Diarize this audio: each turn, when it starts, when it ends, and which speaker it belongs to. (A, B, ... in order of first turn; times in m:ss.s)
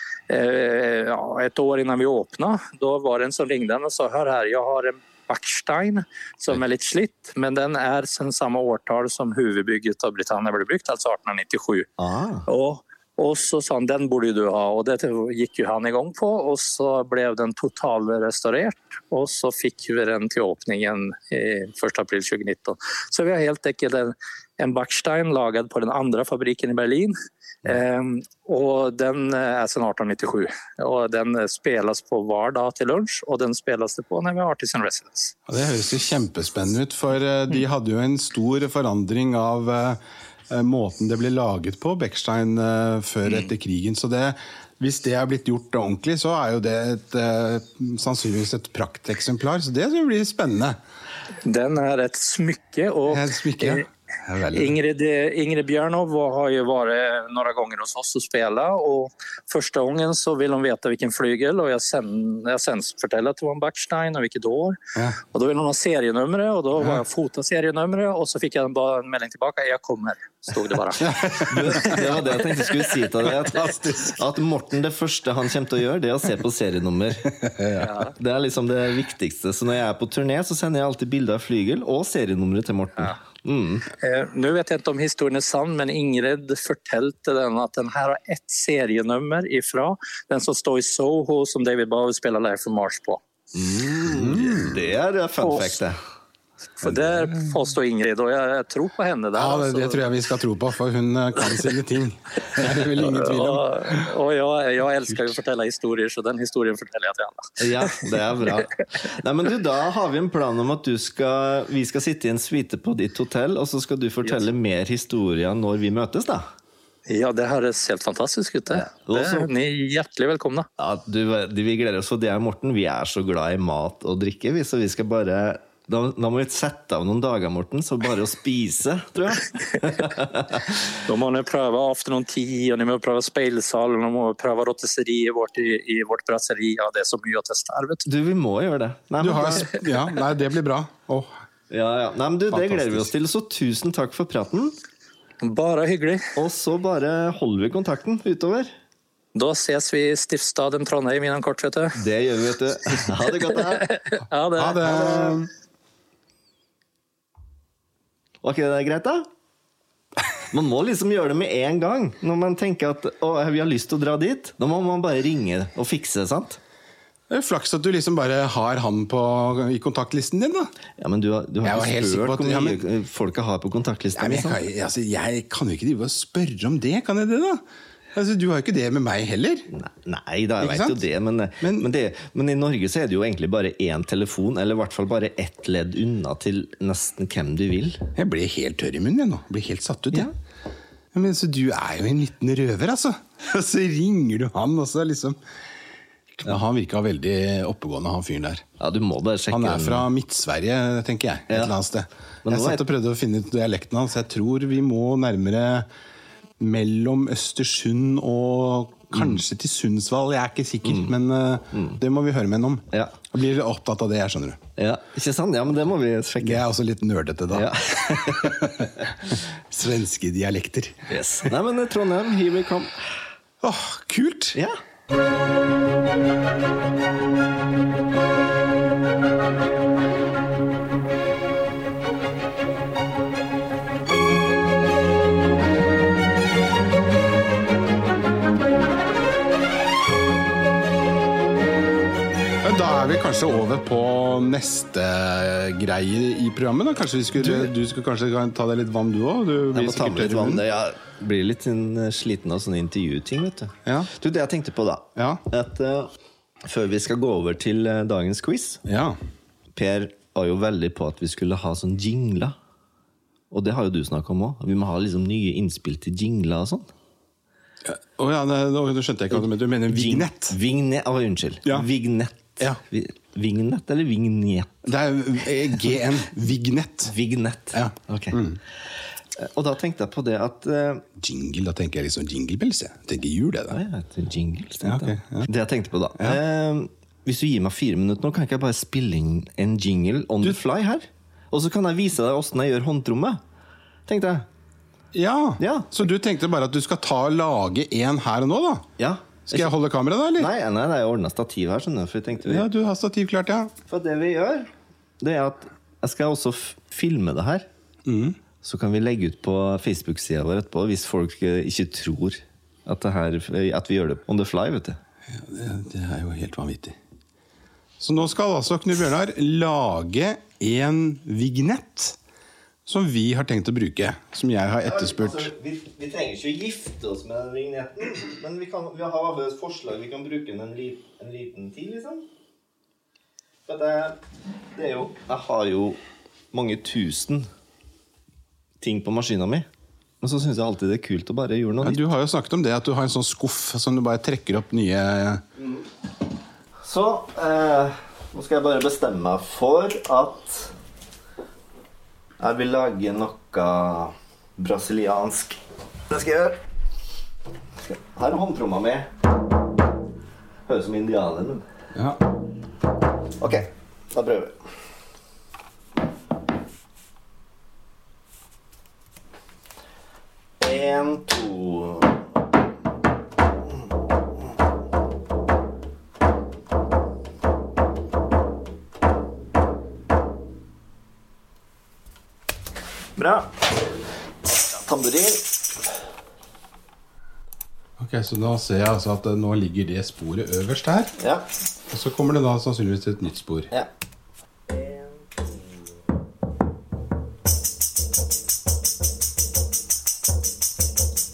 0:00.3-0:11.9 A
0:12.0-0:12.4 B
0:12.5-0:35.3 A
0:35.5-0:40.0 C
0:40.5-0:50.8 C
0:51.4-0:53.8 A
0:53.1-0:54.7 C
0:54.5-1:12.5 A
1:11.0-1:12.0 C
1:11.4-1:17.3 B
1:13.5-1:14.1 C
1:17.4-1:17.9 C
1:17.8-1:18.1 A
1:18.1-1:23.9 B
1:24.0-1:33.2 A
1:33.5-1:36.0 B
1:34.1-1:34.8 C
1:35.4-1:35.8 A
1:36.8-1:40.0 A
1:39.4-1:44.1 C
1:43.0-1:48.6 A
1:47.6-1:56.5 B
1:57.1-2:00.7 A
1:58.7-1:59.5 B
2:00.8-2:10.8 B
2:11.0-2:18.0 A
2:18.1-2:19.8 B
2:19.2-2:21.3 C
2:21.7-2:24.7 B
2:22.5-2:23.1 C
2:25.4-2:26.3 A
2:26.4-2:28.7 B
2:29.4-2:32.0 A
2:32.0-2:33.9 B
2:33.4-2:34.8 A
2:34.6-2:35.5 C
2:34.8-2:35.4 B
2:38.4-2:39.3 B
2:40.5-2:46.6 B
2:47.3-2:50.7 C
2:51.0-2:54.6 B
2:51.6-2:52.8 C
2:54.2-2:57.6 C
2:58.1-2:59.6 C
2:59.7-3:08.0 B
3:00.6-3:01.0 C
3:01.6-3:01.9 C
3:08.1-3:10.3 C
3:11.1-3:15.4 C
3:16.4-3:18.6 C
3:18.8-3:20.1 B
3:19.5-3:25.9 C
3:22.4-3:22.8 B
3:26.6-3:34.6 C
3:30.8-3:31.1 B
3:31.7-3:32.0 B
3:32.9-3:33.2 B
3:34.8-3:36.6 B
3:36.4-3:41.1 C
3:37.5-3:39.1 B
3:41.1-3:43.2 B
3:43.6-3:44.6 C
4:02.6-4:10.6 C
4:07.4-4:07.7 B
4:09.7-4:16.1 B
4:13.8-4:14.1 C
4:15.2-4:15.4 C
4:16.6-4:18.8 B
4:18.9-4:19.2 C
4:19.7-4:22.6 B
4:23.5-4:26.9 B
4:27.8-4:30.6 C
4:29.3-4:34.8 B
4:34.8-4:37.1 C
4:37.1-4:38.4 B
4:37.7-4:38.6 C
4:39.4-4:41.0 B
4:41.2-4:43.8 C
4:43.7-4:53.4 B
4:44.8-4:45.5 C
4:54.1-4:54.5 B
4:55.1-4:58.9 C
4:55.6-4:55.9 B
4:59.0-4:59.7 B
4:59.5-5:00.5 C
5:00.4-5:02.6 B
5:02.4-5:03.7 C
5:03.9-5:04.7 B
5:05.2-5:07.7 B
5:08.1-5:08.4 C
5:08.6-5:15.0 B
5:15.3-5:17.0 C
5:18.0-5:22.2 C
5:22.9-5:25.5 C
5:24.8-5:32.2 B
5:33.6-5:34.2 B
5:34.7-5:36.0 B
5:36.5-5:37.5 B
5:38.8-5:39.7 B
5:40.2-5:42.0 B
5:41.8-5:45.4 C
5:45.6-5:45.9 B
5:46.8-5:50.7 B
5:52.4-5:56.6 B
5:57.8-5:59.1 B
6:00.7-6:01.6 B
6:01.9-6:02.2 C
6:03.4-6:04.6 B
6:10.6-6:12.2 B
6:23.2-6:23.6 B
6:24.8-6:25.6 B
6:28.0-6:31.1 C
6:31.2-6:31.4 B
6:31.9-6:33.7 C